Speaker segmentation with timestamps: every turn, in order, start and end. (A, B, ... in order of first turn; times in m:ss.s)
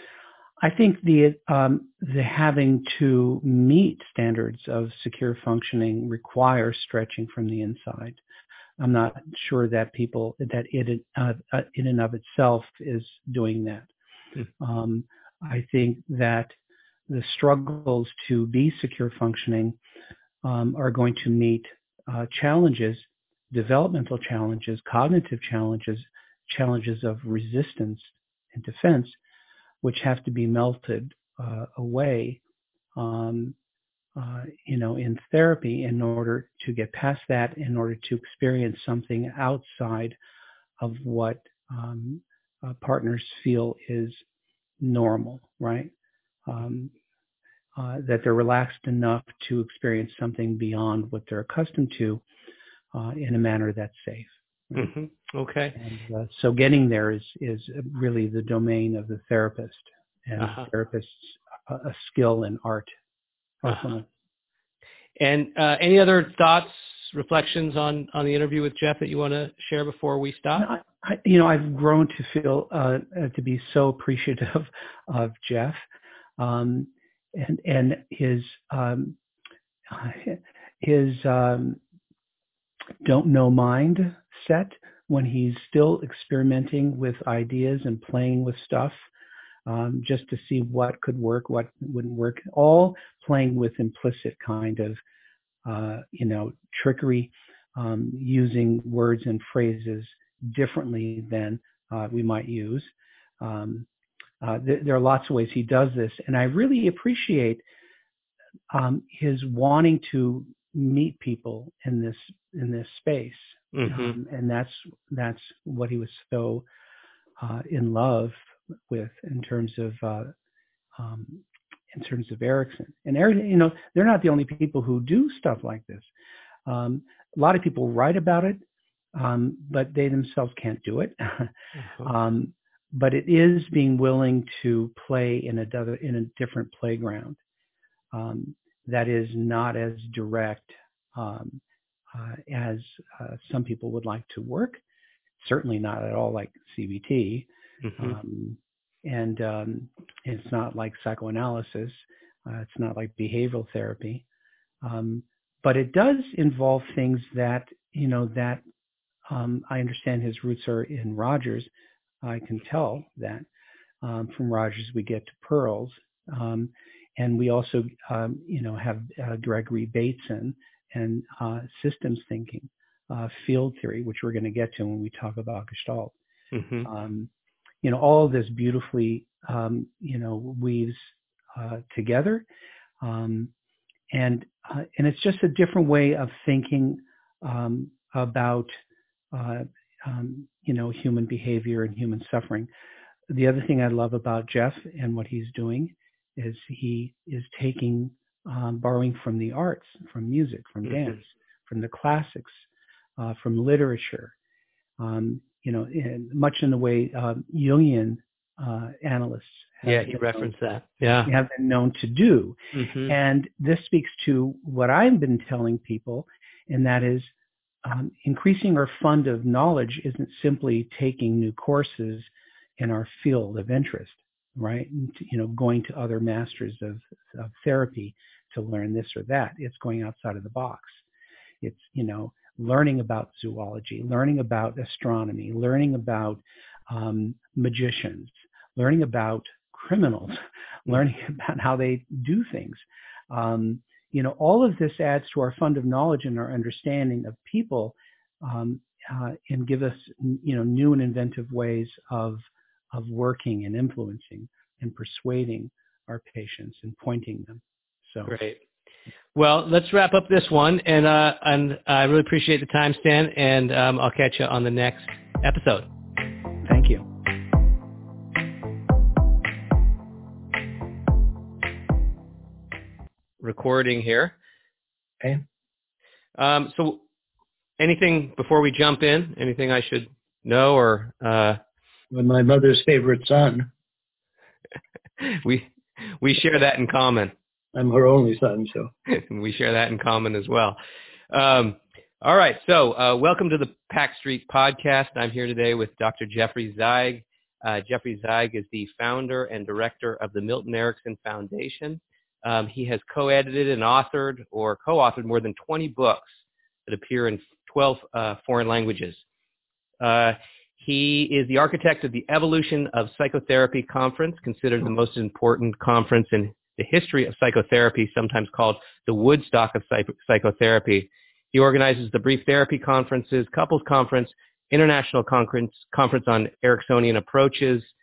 0:00.6-0:08.2 A
0:08.8-0:13.9 A
0:14.6-0:16.6 A
0:17.1-0:19.8 A
0:20.4-0:29.2 A
0:29.8-0:32.4 A
0:33.0-0:33.6 A
0:34.2-0:40.2 A
0:40.8-0:44.2 A
0:44.8-0:45.9 A
0:46.5-0:46.9 A
0:47.8-0:52.2 A
0:52.9-0:54.9 A
0:54.7-0:55.8 B
0:55.8-1:02.9 A
1:00.4-1:00.7 B
1:03.6-1:04.1 A
1:05.2-1:10.7 B
1:10.6-1:15.8 A
1:16.4-1:19.2 A
1:19.9-1:21.8 A
1:23.0-1:29.0 A
1:29.7-1:35.0 A
1:35.6-1:43.9 A
1:44.4-1:47.6 A
1:48.7-1:56.6 A
1:53.7-1:54.2 B
1:57.4-2:00.3 A
2:01.0-2:06.1 A
2:06.7-2:08.6 A
2:09.2-2:17.4 A
2:18.1-2:21.6 A
2:22.1-2:24.8 A
2:25.4-2:27.5 A
2:27.8-2:28.2 B
2:28.0-2:34.2 A
2:34.8-2:38.6 A
2:39.3-2:41.7 A
2:42.2-2:43.4 A
2:44.0-2:56.1 A
2:56.5-2:56.9 B
2:56.8-2:57.3 A
2:57.8-3:02.4 A
3:03.0-3:03.5 A
3:04.1-3:08.8 A
3:09.3-3:12.7 A
3:13.3-3:22.6 A
3:23.2-3:24.3 A
3:25.0-3:30.5 A
3:29.8-3:31.3 B
3:31.2-3:37.3 A
3:32.7-3:33.1 B
3:37.8-3:51.0 A
3:51.6-4:18.4 A
4:18.2-4:18.6 B
4:19.4-4:25.9 B
4:26.6-4:27.1 A
4:33.4-4:34.3 B
4:36.4-4:37.0 B
4:37.8-4:41.6 B
4:42.1-4:43.7 C
4:45.2-4:47.3 B
4:47.7-4:48.9 C
4:49.1-4:50.8 B
4:51.3-5:09.2 B
5:10.0-5:27.9 B